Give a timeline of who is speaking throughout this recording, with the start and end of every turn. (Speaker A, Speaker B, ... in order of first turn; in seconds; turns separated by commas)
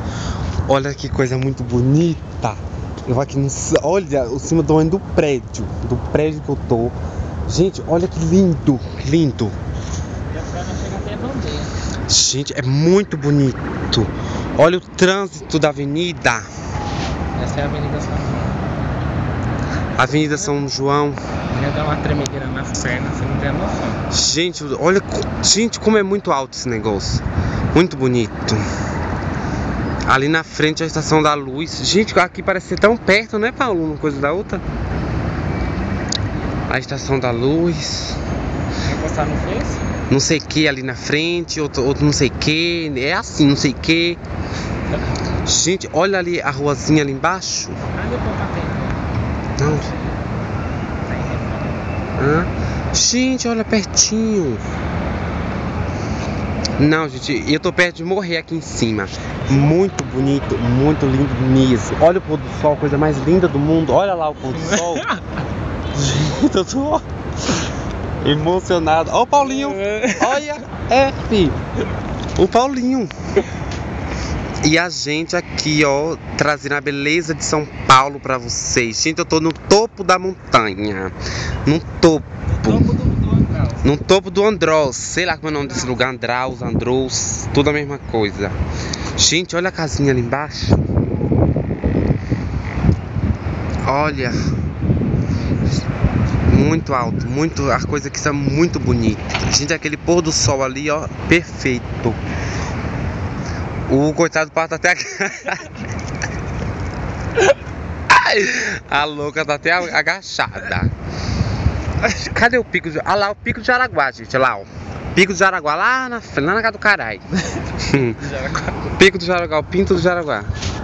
Speaker A: 0.7-7.0, Speaker A: 7.5-9.6, Speaker B: 10.3-11.7, Speaker A: 12.1-16.5, Speaker B: 17.4-18.6, Speaker A: 20.0-21.2, Speaker B: 20.1-20.5, Speaker B: 21.5-24.0, Speaker A: 24.1-28.6, Speaker A: 30.1-34.6, Speaker A: 36.7-38.2, Speaker B: 38.8-39.8, Speaker A: 40.1-44.2, Speaker A: 45.4-47.8, Speaker B: 47.9-49.0, Speaker A: 49.6-49.9, Speaker B: 51.0-51.8, Speaker A: 52.2-54.6, Speaker A: 56.8-65.1, Speaker B: 64.5-65.2, Speaker A: 65.9-67.0, Speaker A: 68.2-71.6, Speaker B: 69.5-70.4, Speaker A: 72.4-73.1, Speaker A: 74.6-81.1, Speaker A: 81.7-82.9, Speaker B: 82.5-83.9, Speaker A: 83.8-88.5, Speaker A: 89.2-90.8, Speaker A: 93.8-94.4, Speaker A: 96.5-102.2, Speaker A: 103.9-105.7, Speaker A: 108.1-110.9, Speaker A: 112.0-117.2, Speaker A: 117.7-120.5, Speaker B: 118.3-118.7